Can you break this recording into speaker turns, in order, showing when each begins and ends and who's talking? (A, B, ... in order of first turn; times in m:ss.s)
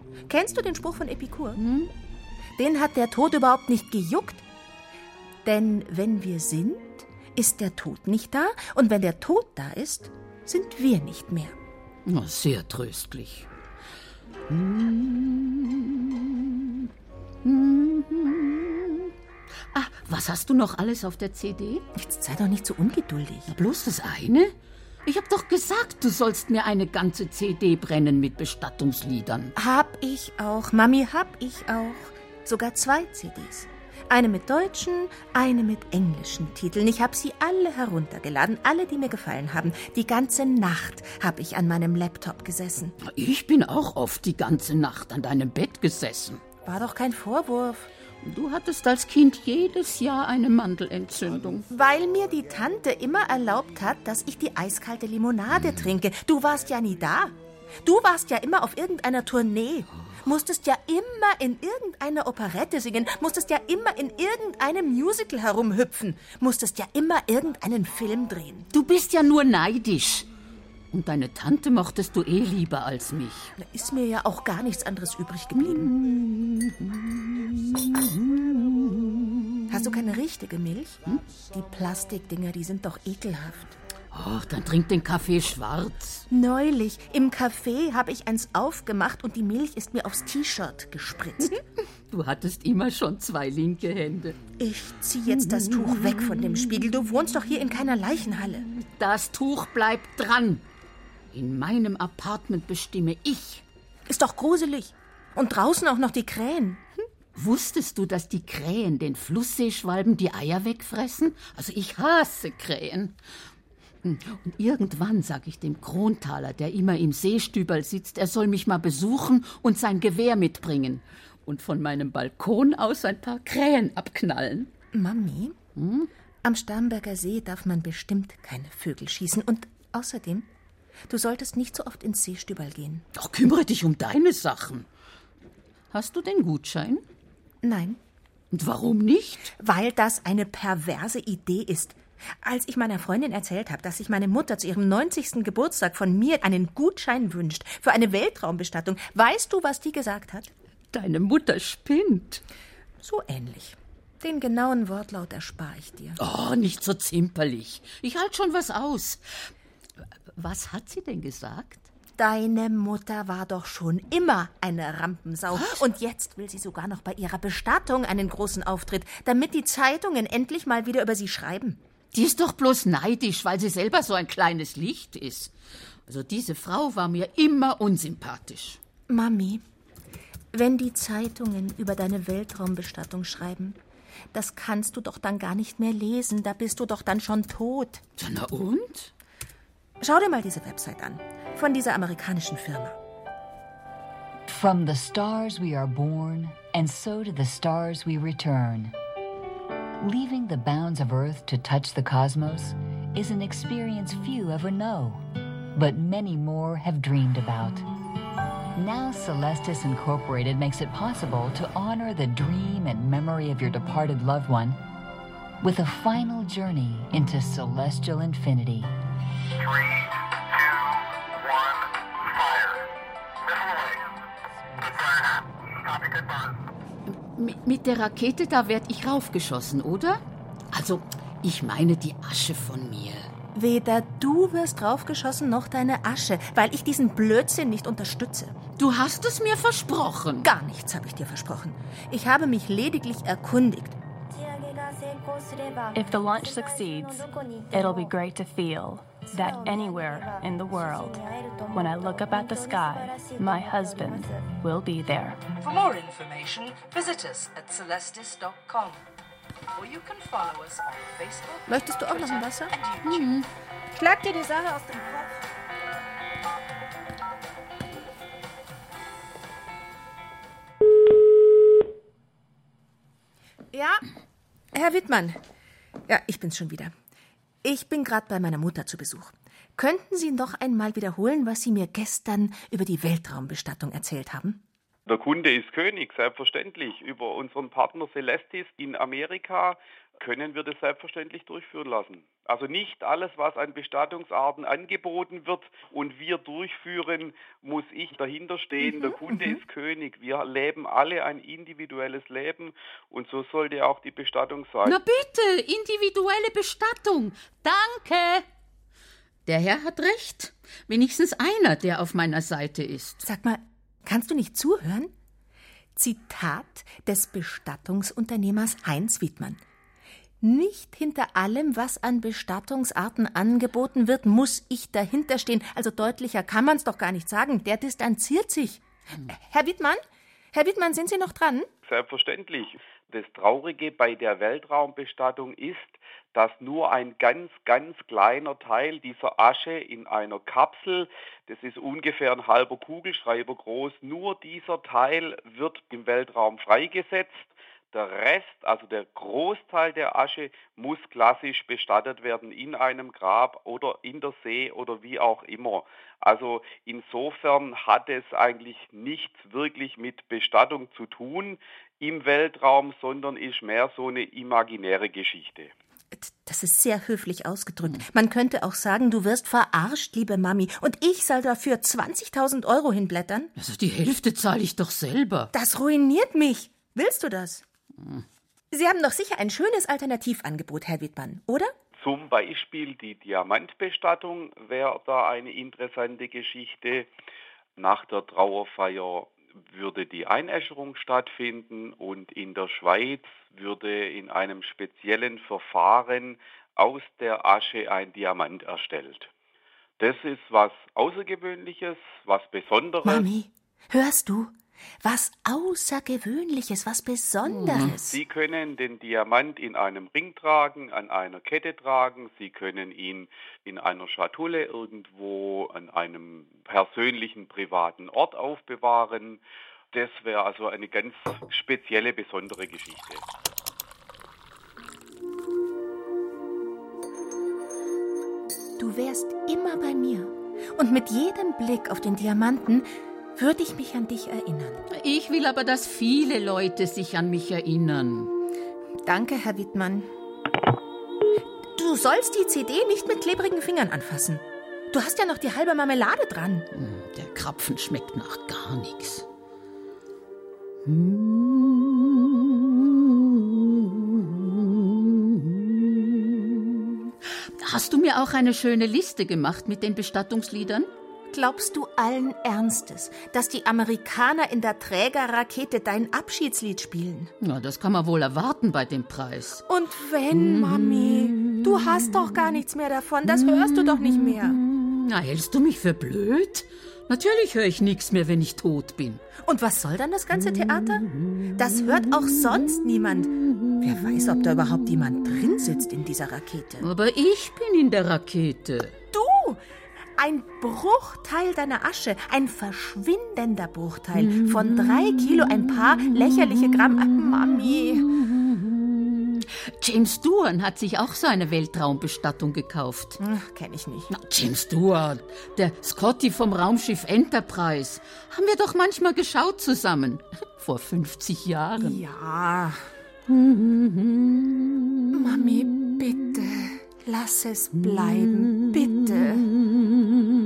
0:00.2-0:01.6 A
0:01.6-0:01.9 B
0:02.6-0:04.4 A
0:05.4-0:11.6 A
0:12.1-0:13.5 B
0:14.5-0:16.7 B
0:17.4-0:19.1 B
0:19.7-0:21.8 B
0:21.9-0:23.5 A
0:23.5-0:24.5 B
0:25.0-0:29.5 B
0:29.6-0:42.9 A
0:43.0-0:46.4 B
0:46.6-0:47.9 A
0:48.2-0:51.7 B
0:51.7-1:08.7 A
1:08.7-1:10.3 B
1:10.9-1:13.5 B
1:13.6-1:15.9 A
1:15.6-1:19.6 B
1:19.7-1:23.8 A
1:24.1-1:26.3 B
1:26.3-1:31.6 A
1:32.1-1:34.4 B
1:34.6-1:38.7 A
1:35.4-1:36.6 B
1:38.7-1:40.7 B
1:41.3-1:43.6 B
1:44.1-1:46.8 A
1:47.4-1:53.2 B
1:54.0-2:04.7 B
2:04.9-2:05.6 A
2:05.8-2:06.1 B
2:06.4-2:10.5 A
2:11.1-2:13.1 A
2:13.1-2:14.9 B
2:15.9-2:17.0 B
2:17.6-2:18.0 A
2:18.5-2:19.5 B
2:19.5-2:30.5 A
2:30.9-2:32.4 B
2:33.0-2:36.2 A
2:36.2-2:39.5 B
2:40.3-2:41.9 B
2:42.2-2:51.8 A
2:45.5-2:45.8 B
2:52.1-2:55.5 B
2:56.1-2:58.8 B
2:59.1-2:59.6 A
3:00.5-3:03.8 A
3:04.3-3:08.0 A
3:08.2-3:09.1 B
3:10.0-3:13.0 A
3:14.5-3:18.9 C
3:20.0-3:25.2 C
3:25.8-3:27.9 C
3:28.8-3:34.8 C
3:35.6-3:38.9 C
3:47.1-3:53.3 B
3:53.5-3:58.6 A
3:58.8-4:00.5 B
4:00.4-4:04.0 A
4:04.3-4:08.2 D
4:05.9-4:15.4 E
4:09.3-4:14.4 D
4:15.5-4:19.0 D
4:19.8-4:23.3 D
4:21.7-4:22.8 A
4:23.1-4:23.5 B
4:24.0-4:24.7 A
4:24.2-4:25.3 D
4:33.7-4:34.0 A
4:34.7-4:35.4 A
4:36.1-4:37.0 A
4:37.6-4:44.6 A
4:45.1-5:05.0 F
4:58.8-4:59.6 A
5:04.8-5:08.5 B
5:09.5-5:13.2 B
5:13.2-5:15.1 A
5:16.0-5:19.6 A
5:20.4-5:31.7 A
5:31.8-6:05.7 F
6:06.1-6:13.5 A
6:13.6-6:15.5 B
6:15.5-6:17.6 A
6:18.0-6:18.2 B
6:18.7-6:21.7 A
6:22.0-6:27.1 F
6:27.8-6:39.3 F
6:40.0-6:43.3 F
6:43.0-6:48.2 A
6:47.5-6:48.0 B
6:47.9-7:03.2 F
7:08.8-7:14.8 A
7:14.9-7:18.3 B
7:19.0-7:20.1 A
7:21.7-7:26.7 A
7:26.7-7:29.3 B
7:30.8-7:36.6 B
7:37.3-7:40.9 B
7:41.3-7:47.3 A
7:47.4-7:49.6 B
7:49.7-7:54.6 A
7:50.4-7:51.7 B
7:53.3-7:59.2 B
7:59.4-8:06.9 A
8:06.8-8:09.0 B
8:09.1-8:09.6 A
8:10.2-8:18.1 A
8:14.3-8:15.3 B
8:18.2-8:23.2 B
8:23.2-8:24.1 A
8:24.1-8:32.0 B
8:31.8-8:32.9 A
8:33.3-8:35.9 B
8:35.1-8:39.5 A
8:38.0-8:39.0 B
8:39.6-8:40.1 B